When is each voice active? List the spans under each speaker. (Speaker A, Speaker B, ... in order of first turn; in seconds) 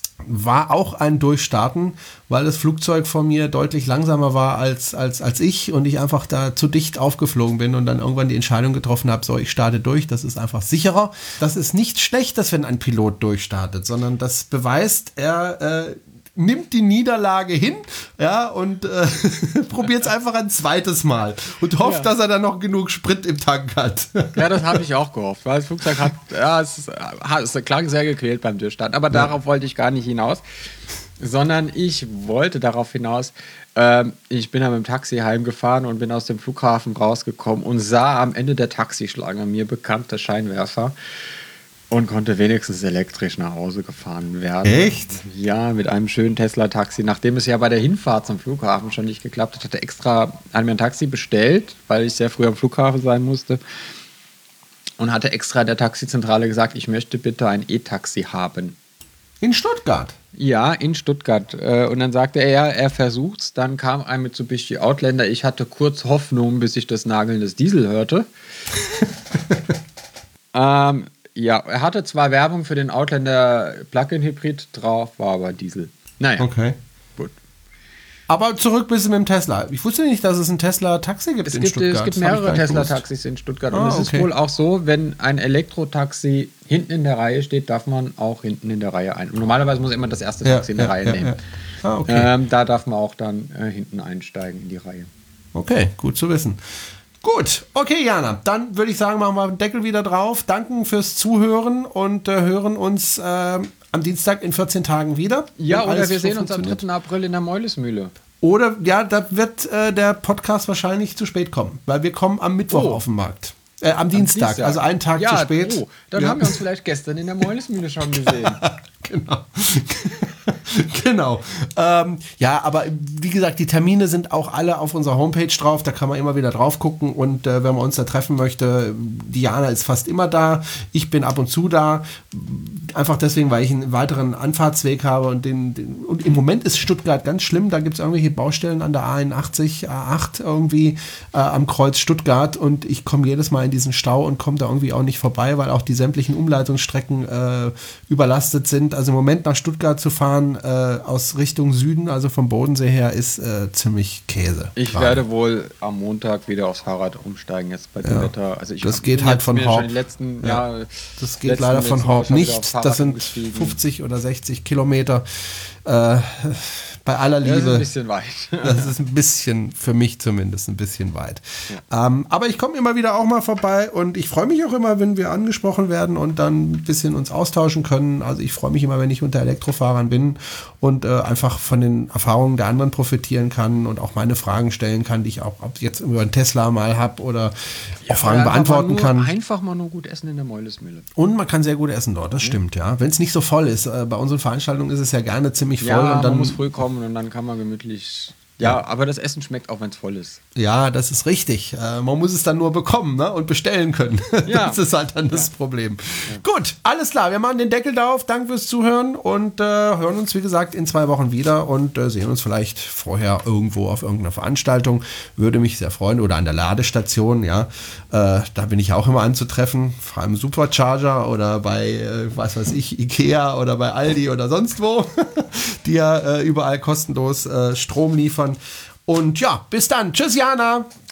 Speaker A: 0.2-24.8, 44.6-45.2, 59.4-60.1, 76.4-76.8, 78.3-83.0, 83.7-84.3, 90.5-92.3, 95.5-96.6, 97.2-106.8, 108.4-116.6, 118.1-155.2, 158.0-159.9, 161.2-167.9, 168.6-189.3, 191.2-196.6, 200.6-230.9
Speaker B: 21.8-22.1, 24.3-30.4, 31.2-41.0, 41.9-53.6, 55.0-58.8, 60.4-68.3, 70.5-76.5, 81.5-91.4, 92.1-95.1, 105.6-108.1, 112.7-113.0, 114.1-118.6, 154.8-163.8, 167.4-168.9, 188.1-191.1, 195.8-200.4, 204.4-205.5